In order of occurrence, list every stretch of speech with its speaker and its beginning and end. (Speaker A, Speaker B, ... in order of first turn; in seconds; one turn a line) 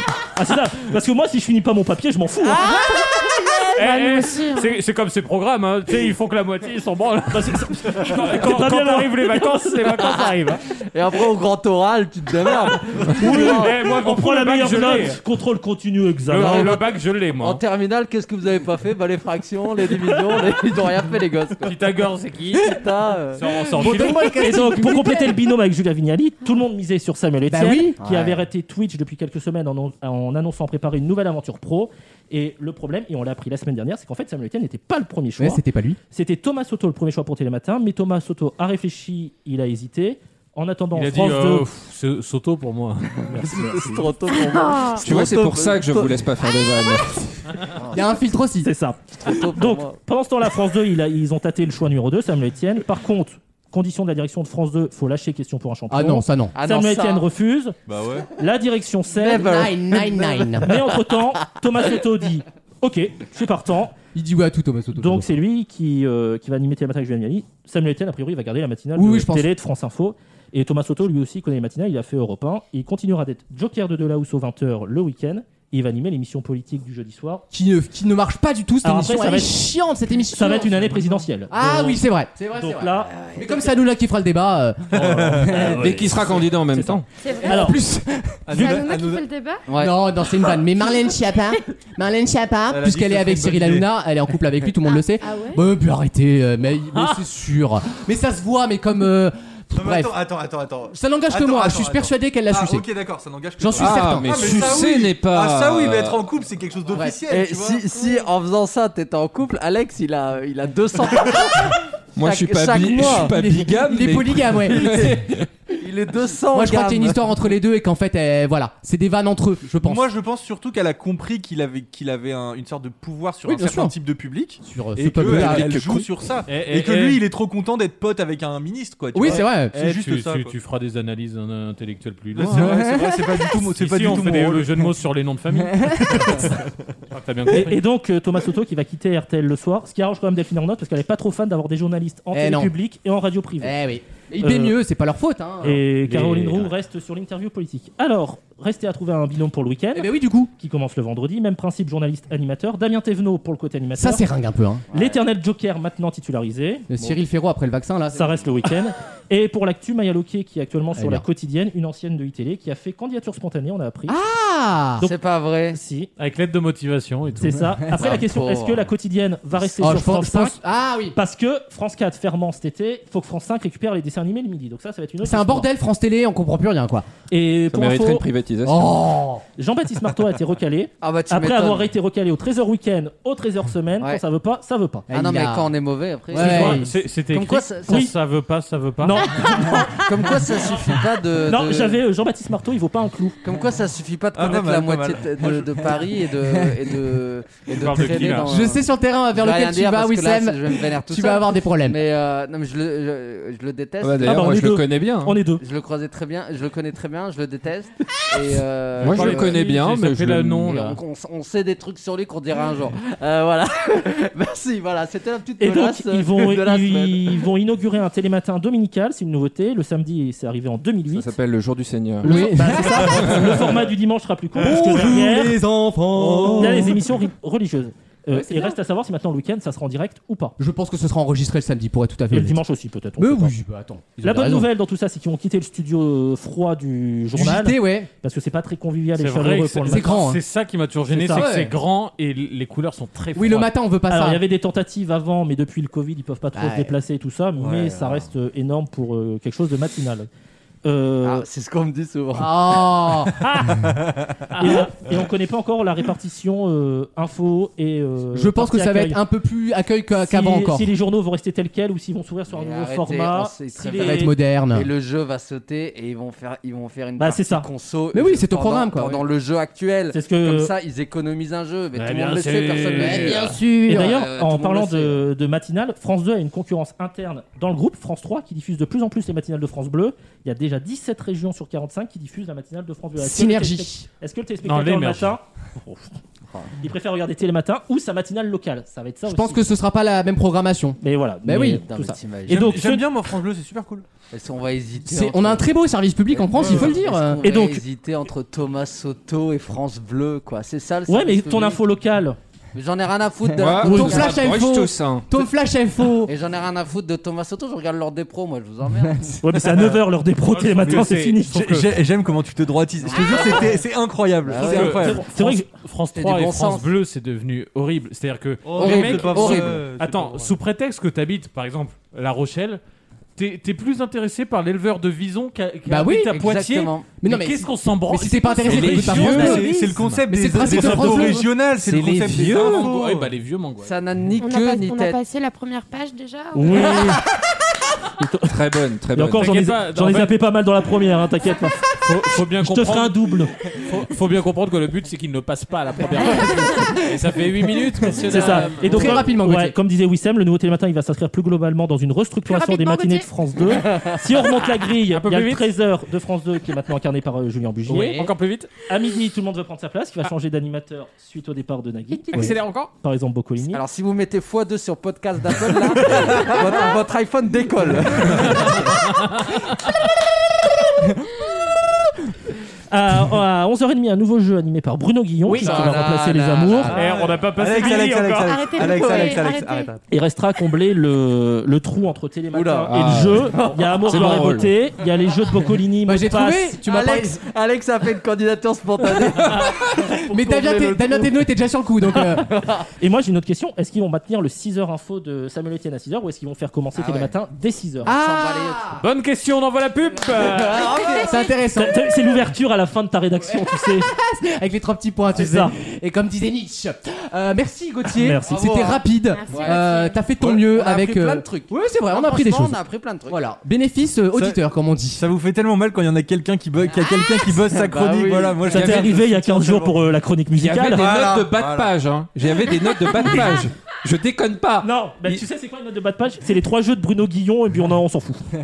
Speaker A: 0.3-2.7
Speaker B: 2.4-3.7
Speaker C: 2.6-4.8
Speaker D: 3.8-10.6
Speaker A: 7.3-9.7
Speaker B: 10.0-13.7
Speaker A: 13.1-16.8
Speaker D: 13.1-15.2
Speaker D: 16.3-17.6
Speaker B: 16.4-16.7
Speaker B: 17.4-21.8
Speaker A: 20.1-20.4
Speaker D: 21.6-22.8
Speaker B: 22.5-23.4
Speaker D: 23.4-24.5
Speaker E: 23.4-25.4
Speaker A: 23.8-41.7
Speaker E: 27.5-28.0
Speaker B: 28.0-28.4
Speaker E: 35.4-36.0
Speaker D: 40.9-43.4
Speaker A: 43.3-44.2
Speaker B: 43.3-46.2
Speaker C: 44.6-45.0
Speaker F: 45.0-47.2
Speaker E: 47.9-48.7
Speaker A: 48.6-57.8
Speaker B: 49.2-50.0
Speaker E: 55.9-56.6
Speaker B: 56.5-57.3
Speaker G: 57.9-58.3
Speaker A: 58.3-59.7
Speaker B: 59.1-60.9
Speaker E: 59.4-60.8
Speaker A: 60.6-64.0
Speaker E: 64.1-65.3
Speaker A: 64.9-77.5
Speaker E: 69.0-69.5
Speaker E: 77.5-85.9
Speaker A: 78.8-79.6
Speaker A: 80.3-82.0
Speaker A: 82.6-83.2
Speaker G: 84.9-85.7
Speaker D: 84.9-85.9
Speaker A: 85.5-87.8
Speaker F: 85.6-87.0
Speaker C: 87.2-87.8
Speaker E: 87.4-88.4
Speaker G: 88.5-89.2
Speaker C: 88.6-89.7
Speaker B: 89.7-90.0
Speaker E: 89.8-100.2
Speaker G: 92.7-93.9
Speaker C: 94.8-95.6
Speaker D: 96.9-97.2
Speaker G: 99.7-107.8
Speaker E: 100.9-102.9
Speaker E: 103.6-104.9
Speaker F: 103.8-106.2
Speaker E: 106.9-107.2
Speaker B: 107.3-113.4
Speaker C: 107.9-108.3
Speaker F: 112.2-115.5
Speaker E: 113.0-115.2
Speaker B: 114.7-117.2
Speaker E: 116.5-120.1
Speaker G: 119.8-130.5
Speaker E: 123.5-124.0
Speaker E: 124.6-126.1
Speaker D: 126.5-127.2
Speaker E: 129.1-129.8
Speaker D: 129.3-132.7
Speaker G: 132.3-134.9
Speaker E: 132.5-133.7
Speaker D: 133.8-136.6
Speaker E: 135.9-136.2
Speaker D: 137.1-137.8
Speaker A: 137.5-143.8
Speaker E: 142.3-142.8
Speaker E: 143.6-145.8
Speaker A: 144.4-144.8
Speaker A: 145.6-154.2
Speaker D: 146.1-146.8
Speaker E: 149.9-150.5
Speaker E: 154.0-154.9
Speaker B: 154.9-155.2
Speaker A: 154.9-157.2
Speaker E: 156.9-158.4
Speaker A: 158.1-164.2
Speaker E: 160.9-161.3
Speaker E: 164.1-165.1
Speaker B: 165.0-165.8
Speaker A: 165.7-166.1
Speaker D: 166.2-168.1
Speaker A: 167.4-170.6
Speaker B: 168.0-168.9
Speaker E: 169.7-171.2
Speaker A: 171.1-175.7
Speaker E: 175.2-177.1
Speaker A: 177.3-178.2
Speaker F: 177.7-178.9
Speaker E: 178.6-179.4
Speaker A: 179.6-185.1
Speaker B: 181.0-181.9
Speaker E: 185.1-185.8
Speaker B: 185.1-188.1
Speaker E: 186.3-186.9
Speaker D: 186.3-189.3
Speaker A: 189.0-193.4
Speaker B: 190.1-192.0
Speaker B: 193.4-204.3
Speaker G: 194.3-195.9
Speaker D: 197.7-198.5
Speaker E: 198.4-202.0
Speaker F: 204.0-205.4
Speaker A: 204.2-205.6
Speaker B: 205.6-209.6
Speaker F: 209.0-210.8
Speaker D: 209.0-211.0
Speaker B: 210.7-217.4
Speaker A: 215.6-221.3
Speaker F: 221.1-222.6
Speaker A: 222.2-225.7
Speaker E: 222.2-223.6
Speaker F: 223.2-223.5
Speaker E: 224.6-227.0
Speaker G: 224.6-227.0
Speaker A: 226.5-230.6
Speaker E: 228.3-228.8
Speaker E: 230.6-232.6
Speaker A: 232.3-233.5
Speaker E: 233.2-234.7
Speaker A: 234.2-240.2
Speaker E: 237.3-238.1
Speaker D: 239.2-243.7
Speaker E: 239.8-240.4
Speaker A: 241.1-241.5
Speaker E: 241.3-241.8
Speaker E: 243.4-244.4
Speaker A: 244.1-250.3
Speaker E: 246.5-247.0
Speaker B: 247.6-248.3
Speaker A: 250.8-251.5
Speaker B: 251.2-253.1
Speaker E: 252.3-253.4
Speaker D: 253.4-253.9
Speaker D: 254.5-254.9
Speaker A: 254.6-259.2
Speaker E: 258.3-260.9
Speaker A: 260.1-264.4
Speaker B: 262.5-275.2
Speaker E: 263.9-264.9
Speaker A: 267.2-267.7
Speaker E: 268.1-269.2
Speaker A: 270.1-270.7
Speaker D: 272.0-273.5
Speaker E: 273.0-274.0
Speaker A: 273.8-286.1
Speaker E: 283.2-284.1
Speaker D: 284.6-285.4
Speaker A: 286.8-289.6
Speaker E: 289.3-291.8
Speaker A: 291.0-293.1
Speaker B: 291.8-292.8
Speaker G: 292.5-294.1
Speaker B: 294.3-295.7
Speaker E: 295.0-297.4
Speaker B: 296.3-301.8
Speaker A: 297.4-297.8
Speaker A: 301.1-302.4
Speaker B: 302.7-304.5
Speaker F: 303.5-305.3
Speaker E: 303.8-306.3
Speaker B: 306.3-309.4
Speaker A: 309.4-311.7
Speaker D: 309.8-312.0
Speaker G: 311.5-315.3
Speaker B: 313.0-313.9
Speaker B: 314.4-315.0
Speaker D: 314.6-322.8
Speaker A: 314.7-315.7
Speaker B: 316.1-316.9
Speaker G: 318.6-320.5
Speaker B: 318.8-319.9
Speaker D: 323.4-331.4
Speaker E: 325.9-326.3
Speaker B: 326.3-327.1
Speaker E: 327.2-331.5
Speaker F: 328.7-329.7
Speaker G: 328.7-333.3
Speaker F: 331.8-332.9
Speaker D: 332.4-334.0
Speaker B: 333.8-335.2
Speaker C: 334.4-337.2
Speaker A: 336.6-337.3
Speaker A: 338.2-338.6
Speaker F: 338.5-339.5
Speaker A: 339.1-343.5
Speaker D: 339.3-340.4
Speaker D: 342.0-349.3
Speaker B: 348.2-349.1
Speaker A: 348.2-358.3
Speaker E: 348.3-349.8
Speaker C: 352.5-353.3
Speaker B: 353.9-354.1
Speaker D: 355.1-355.7
Speaker D: 357.9-358.7
Speaker E: 357.9-358.2
Speaker A: 358.9-363.8
Speaker D: 362.3-362.9
Speaker B: 363.6-369.0
Speaker G: 366.2-366.6
Speaker D: 368.4-369.6
Speaker A: 372.9-377.0
Speaker E: 375.5-375.9
Speaker B: 375.5-377.2
Speaker G: 376.9-380.0
Speaker D: 376.9-378.6
Speaker C: 377.8-379.9
Speaker B: 378.8-379.5
Speaker A: 380.1-386.8
Speaker B: 382.5-384.3
Speaker F: 382.9-384.8
Speaker E: 386.1-387.4
Speaker B: 386.9-391.5
Speaker E: 389.5-392.5
Speaker B: 392.1-392.9
Speaker A: 393.0-398.1
Speaker B: 396.9-397.3
Speaker E: 398.0-399.0
Speaker B: 398.1-399.0
Speaker D: 399.0-401.0
Speaker B: 400.3-401.5
Speaker C: 400.8-401.6
Speaker E: 401.0-402.0
Speaker A: 401.7-404.1
Speaker E: 403.5-415.2
Speaker A: 405.3-405.7
Speaker A: 408.1-408.8
Speaker B: 408.5-409.9
Speaker C: 409.3-410.2
Speaker B: 410.4-413.4
Speaker G: 414.3-414.6
Speaker G: 415.1-420.0
Speaker B: 417.6-418.7
Speaker A: 418.6-421.1
Speaker F: 418.7-419.1
Speaker F: 420.6-425.4
Speaker G: 420.9-421.9
Speaker A: 424.8-428.4